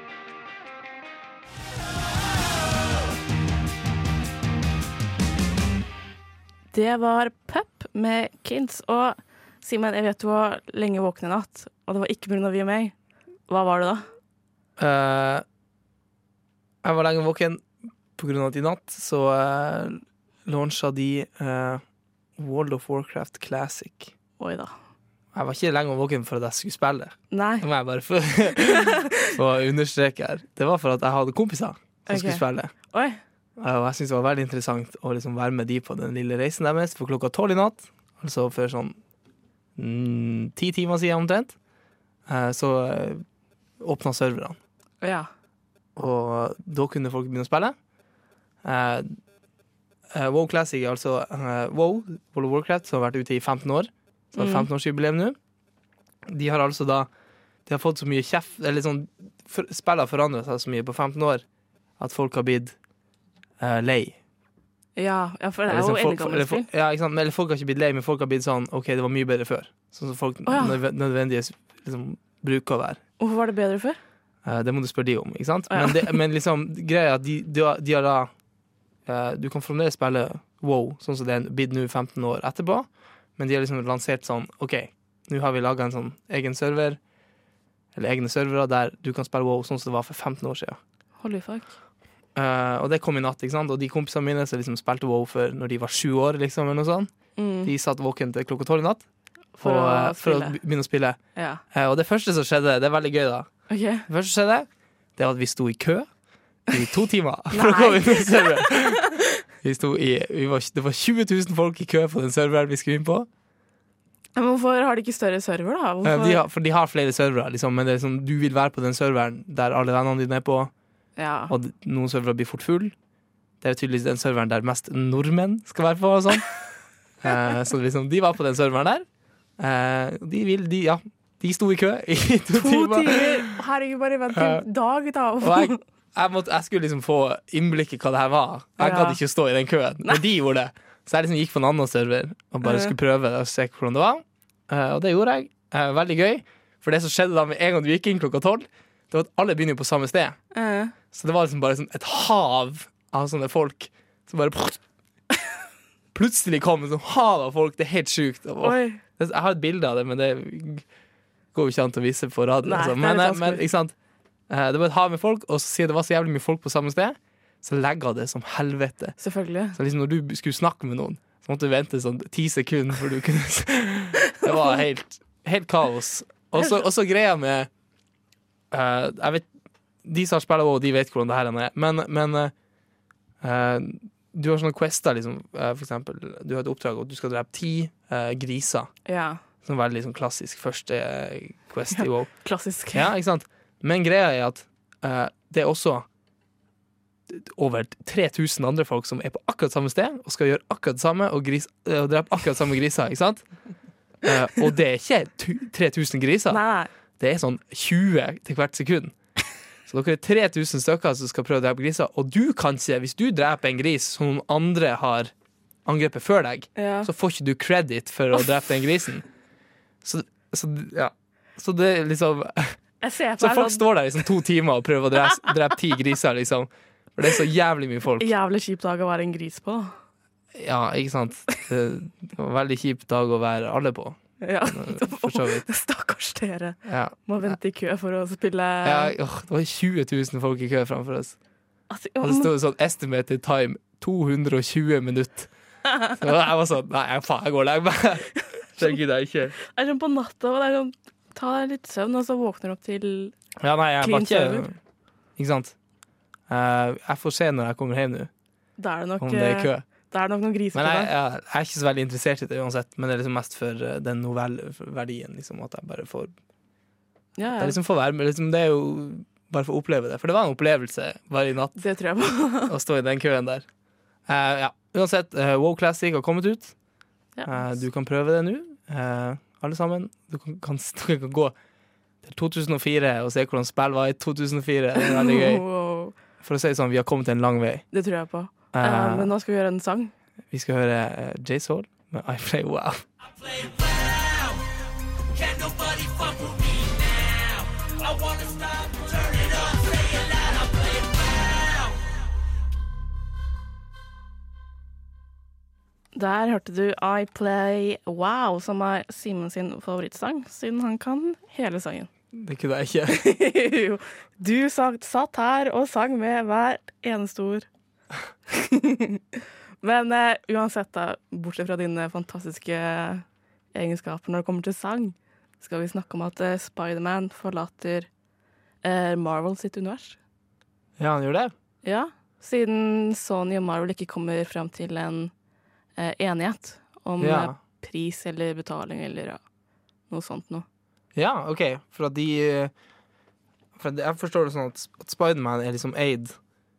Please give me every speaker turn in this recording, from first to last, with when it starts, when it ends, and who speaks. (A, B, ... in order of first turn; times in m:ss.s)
0:06.7-0:13.0 A
0:13.5-0:14.1 A
0:14.8-0:15.4 B
0:16.8-0:17.6 B
0:18.2-0:21.8 B
0:22.4-0:24.1 B
0:24.4-0:24.7 A
0:25.3-0:32.7 B
0:27.3-0:27.7 A
0:28.7-0:29.3 A
0:32.1-0:33.2 A
0:33.6-0:39.0 B
0:39.8-0:41.6 B
0:42.3-0:43.2 B
0:43.8-0:44.6 B
0:45.0-0:45.3 A
0:46.0-0:47.8 B
0:48.6-0:49.2 B
0:50.1-0:55.4 B
0:54.4-0:54.7 A
0:56.3-0:57.1 B
0:57.7-1:01.4 B
1:02.0-1:02.8 B
1:03.6-1:04.2 B
1:05.0-1:06.7 A
1:05.7-1:13.0 B
1:10.5-1:10.8 A
1:13.2-1:14.0 A
1:14.4-1:18.3 B
1:15.7-1:16.2 A
1:19.1-1:27.0 B
1:28.0-1:30.8 B
1:31.2-1:31.7 A
1:32.4-1:37.1 B
1:37.4-1:37.7 A
1:37.6-1:39.0 B
1:39.6-1:40.6 A
1:39.6-1:41.2 B
1:41.4-1:41.6 A
1:41.7-1:43.5 B
1:43.7-1:44.1 A
1:44.1-1:46.1 B
1:46.7-1:49.1 B
1:47.5-1:49.4 A
1:49.6-1:53.3 B
1:54.4-1:56.4 A
1:56.0-2:00.7 B
2:01.2-2:01.5 A
2:01.5-2:03.0 B
2:03.6-2:06.5 B
2:07.2-2:09.1 B
2:09.6-2:13.6 B
2:12.5-2:15.8 A
2:14.3-2:14.6 B
2:15.4-2:30.4 B
2:18.8-2:19.2 A
2:22.6-2:22.9 A
2:30.5-2:31.0 A
2:31.1-2:34.8 B
2:36.1-2:40.8 B
2:38.6-2:39.0 A
2:41.5-2:43.9 B
2:42.6-2:43.6 A
2:44.5-2:49.2 B
2:49.2-2:49.8 A
2:49.8-2:57.7 B
2:58.7-2:59.5 B
3:00.0-3:02.5 B
3:03.4-3:08.9 B
3:09.1-3:09.4 A
3:09.6-3:12.3 B
3:11.9-3:13.1 A
3:12.9-3:16.1 B
3:17.3-3:23.4 B
3:24.2-3:26.6 B
3:26.5-3:26.9 A
3:27.2-3:29.2 B
3:29.9-3:35.3 B
3:35.8-3:39.3 B
3:36.8-3:37.1 A
3:40.0-3:42.8 B
3:43.0-3:43.8 A
3:43.4-3:48.3 B
3:48.2-3:49.9 A
3:50.5-3:55.6 B
3:54.4-3:59.1 A
3:56.9-3:57.6 B
3:58.8-4:01.4 B
4:01.9-4:02.5 A
4:02.2-4:05.5 B
4:06.1-4:09.6 B
4:08.6-4:09.0 A
4:09.6-4:13.4 A
4:13.6-4:14.8 B
4:14.0-4:14.7 A
4:15.4-4:15.8 B
4:16.5-4:18.3 B
4:18.8-4:21.1 A
4:19.2-4:19.8 B
4:20.8-4:26.3 B
4:27.4-4:27.8 A
4:27.5-4:31.8 B
4:31.8-4:32.7 A
4:32.7-4:33.7 B
4:34.3-4:36.7 B
4:37.4-4:37.7 A
4:37.5-4:41.5 B
4:42.2-4:45.7 B
4:45.0-4:46.2 A
4:46.4-4:47.8 B
4:47.9-4:50.1 A
4:48.7-4:49.3 B
4:50.5-4:53.1 B
5:06.1-5:12.1 A
5:12.3-5:13.2 B
5:13.1-5:17.7 A
5:18.5-5:28.1 A
5:28.8-5:30.2 A
5:31.0-5:31.5 B
5:31.8-5:35.3 A
5:36.0-5:39.4 A
5:37.2-5:37.6 B
5:40.1-5:40.6 A
5:41.2-5:42.7 B
5:43.8-5:46.4 B